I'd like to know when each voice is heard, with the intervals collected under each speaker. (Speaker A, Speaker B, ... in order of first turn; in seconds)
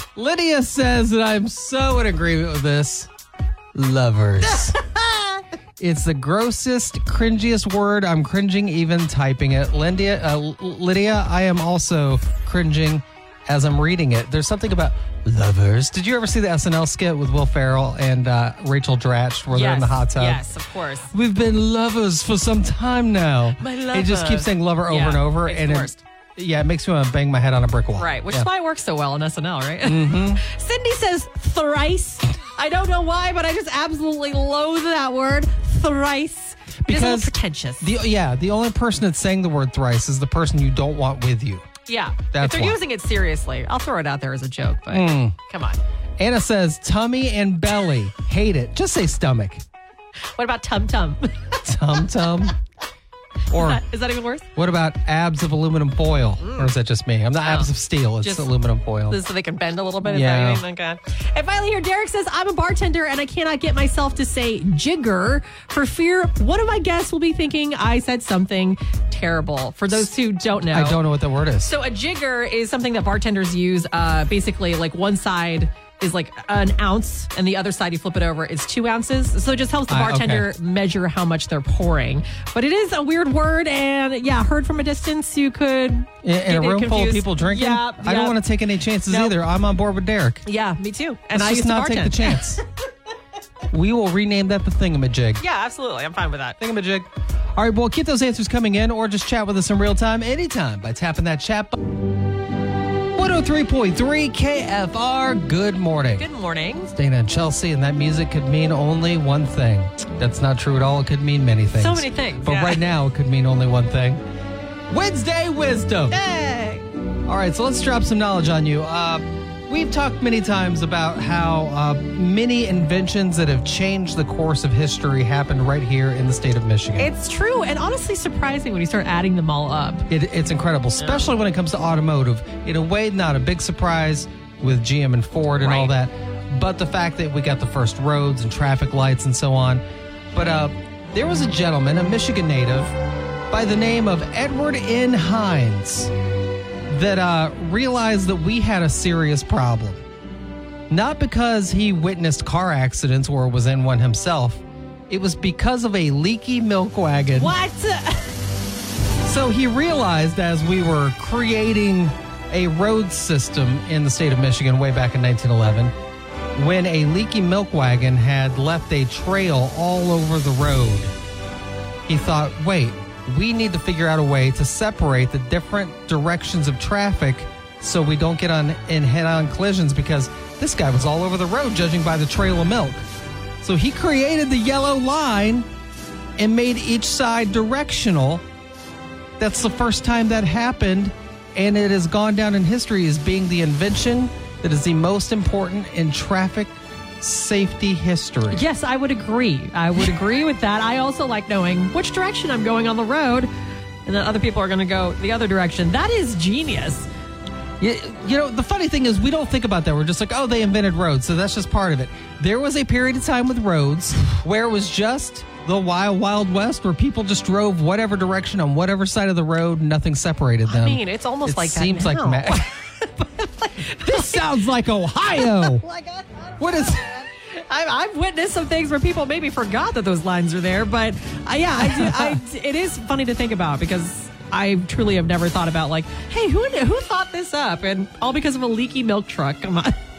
Speaker A: 0.1-3.1, 3.7-4.8, 5.8-20.4, 21.1-28.5, 29.8-30.4, 36.8-41.7, 42.3-42.8, 44.9-45.4, 46.2-49.6, 51.6-52.5, 53.5-53.8, 54.5-59.2, 60.0-60.6, 70.7-71.7, 79.9-80.5, 86.2-90.4, 91.3-92.6, 93.7-95.4, 96.6-101.8, 103.2-106.3, 106.9-114.2, 114.9-116.2, 117.2-127.1, 130.1-139.8, 140.3-142.9, 143.5-146.1, 146.9-150.0, 150.9-157.6, 159.2-165.9, 166.5-171.1, 172.1-183.0, 183.6-185.7, 186.4-188.4, 189.4-198.6, 207.8-222.7, 223.8-225.8, 226.6-227.1, 231.8-232.4
Speaker B: 4.5-5.4, 19.5-21.1, 23.6-26.0, 28.0-37.9, 41.9-45.8, 50.4-51.6, 53.5-54.5, 56.4-56.7, 57.4-57.7, 58.2-58.5, 59.1-71.0, 71.6-88.4, 89.1-89.3, 90.4-92.6, 95.4-96.6, 106.2-106.9, 111.7-112.8, 116.1-116.8, 127.0-130.1, 131.0-131.2, 135.6-135.9, 157.3-158.3, 198.5-203.5, 204.1-207.1, 220.6-224.4, 225.4-240.0